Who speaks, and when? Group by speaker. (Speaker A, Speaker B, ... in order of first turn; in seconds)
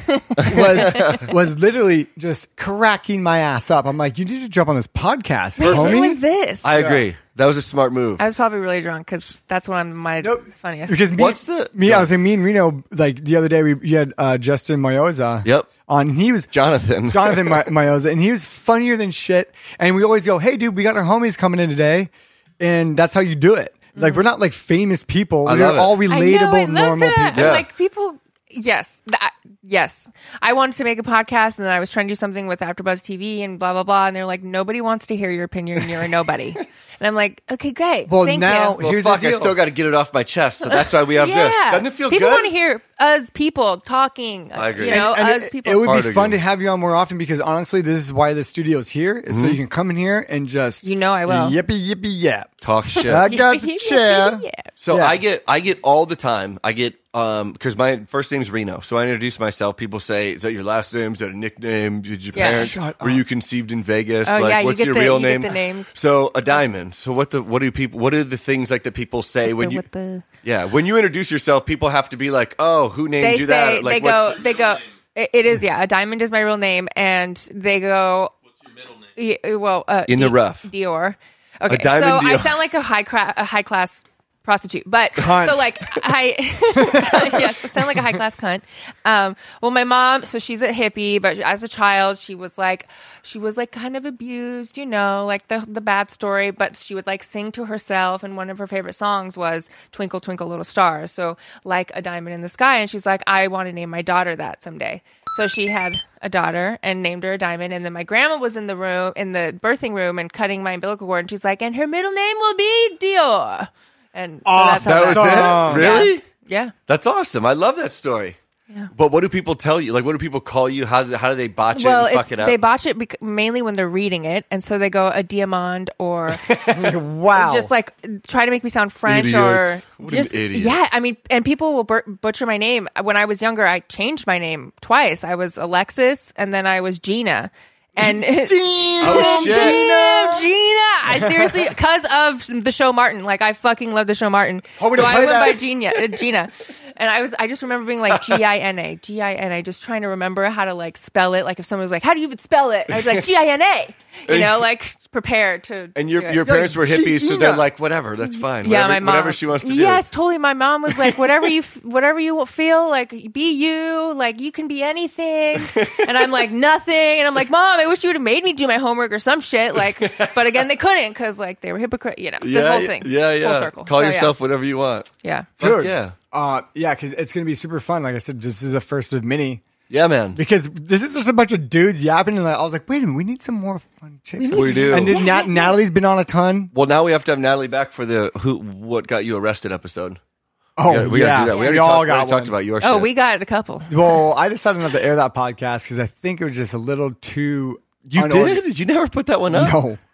Speaker A: 0.4-7.0, 10.2-16.5, 17.1-27.6, 38.0-39.6, 44.9-55.2, 62.3-63.2, 85.2-85.7, 86.8-87.5, 114.4-116.1, 126.7-127.7, 138.0-140.5, 141.1-141.7, 144.8-145.7, 156.4-157.7, 175.6-179.6, 180.3-186.7, 190.8-192.6, 193.9-198.6, 199.5-200.0
Speaker B: 0.4-1.3, 5.6-8.2, 11.2-12.1, 15.4-15.7, 16.5-17.7, 25.4-26.0, 27.3-27.7, 38.8-42.5, 44.5-45.1, 45.8-46.4, 49.3-49.6, 52.6-53.3, 54.8-69.9, 70.4-74.5, 80.1-80.7, 81.7-82.6, 114.8-116.2, 116.9-118.4, 118.9-122.6, 126.3-126.9, 129.1-130.8, 139.0-139.8, 154.3-154.6, 155.9-160.0, 161.0-161.4, 165.6-166.1, 169.9-170.6, 172.4-176.1, 179.9-180.4, 184.5-185.2, 186.7-190.2, 190.9-193.1, 198.1-199.8
Speaker C: 5.6-6.7, 8.2-11.1, 23.9-24.2, 26.1-38.8, 40.8-45.9, 50.8-51.6, 53.3-54.6, 62.3-62.7, 64.2-65.9, 69.5-70.2, 73.2-78.3, 79.2-116.7, 121.7-126.4, 127.3-156.5, 158.6-174.3, 175.2-175.5, 184.4-185.8, 191.4-191.7, 192.8-194.0